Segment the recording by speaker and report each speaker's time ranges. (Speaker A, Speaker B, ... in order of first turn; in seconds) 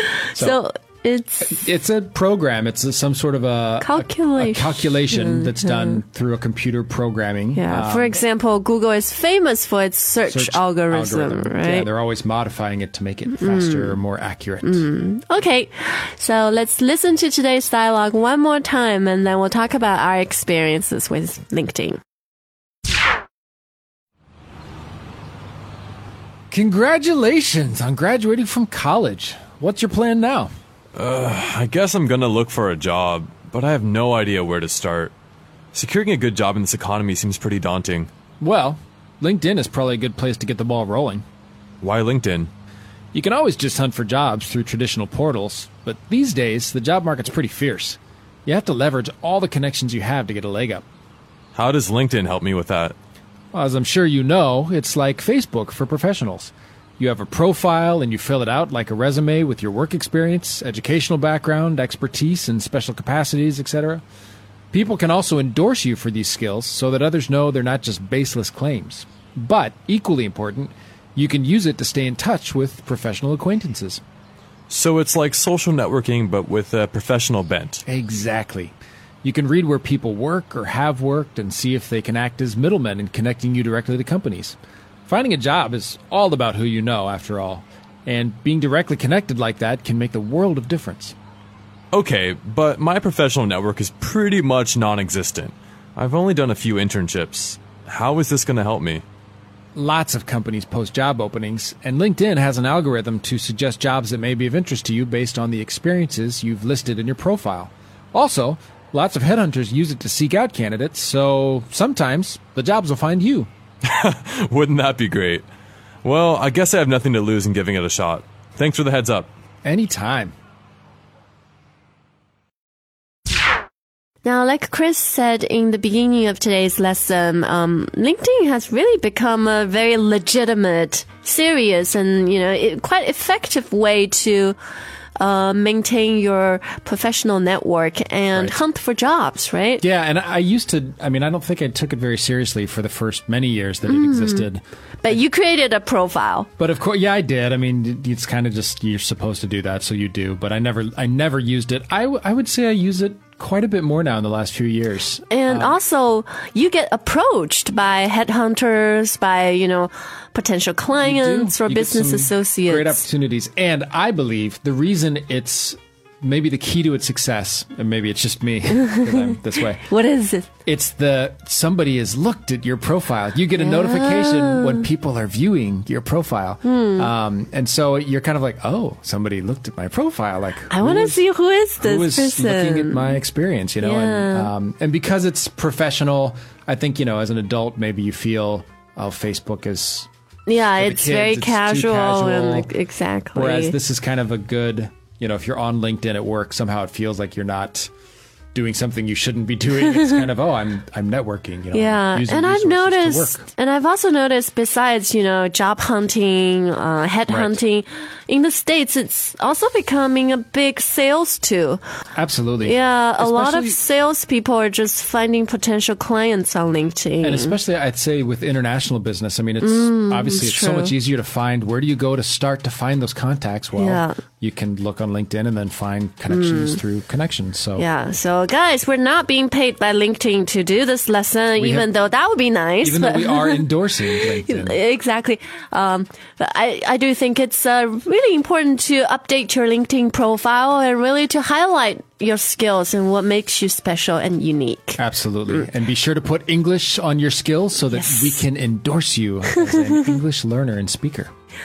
Speaker A: 0.1-1.6, 3.8-6.0, 7.5-11.9, 13.3-13.9, 14.6-22.0, 124.2-134.6, 135.2-139.8, 143.8-144.5, 145.0-146.5, 155.3-163.1, 168.7-170.5, 173.6-174.8, 176.6-177.1, 180.7-183.2, 183.8-184.5, 190.5-193.8, 201.7-211.8, 212.6-217.6, 219.6-220.9, 223.7-224.2, 226.3-226.8, 227.8-233.7, 234.2-245.0, 247.9-248.4, 249.5-250.0
Speaker B: 0.3-0.6, 1.4-8.2, 10.2-14.8, 26.5-30.5, 38.4-41.2, 43.1-50.8, 53.5-64.0, 64.7-74.0, 77.8-91.1, 99.7-113.5, 119.6-120.3, 138.3-138.6, 139.8-145.2, 146.6-155.8, 161.0-169.8, 170.6-181.2, 181.8-190.1, 190.8-192.7, 193.3-197.9, 198.5-203.5, 207.3-207.6, 212.1-213.8, 217.2-227.8, 231.6-231.9, 232.8-234.8, 245.0-251.3
Speaker C: 30.9-35.1, 35.7-38.1, 41.8-42.5, 51.5-52.9, 74.7-77.8, 91.9-99.0, 113.8-115.4, 116.0-119.3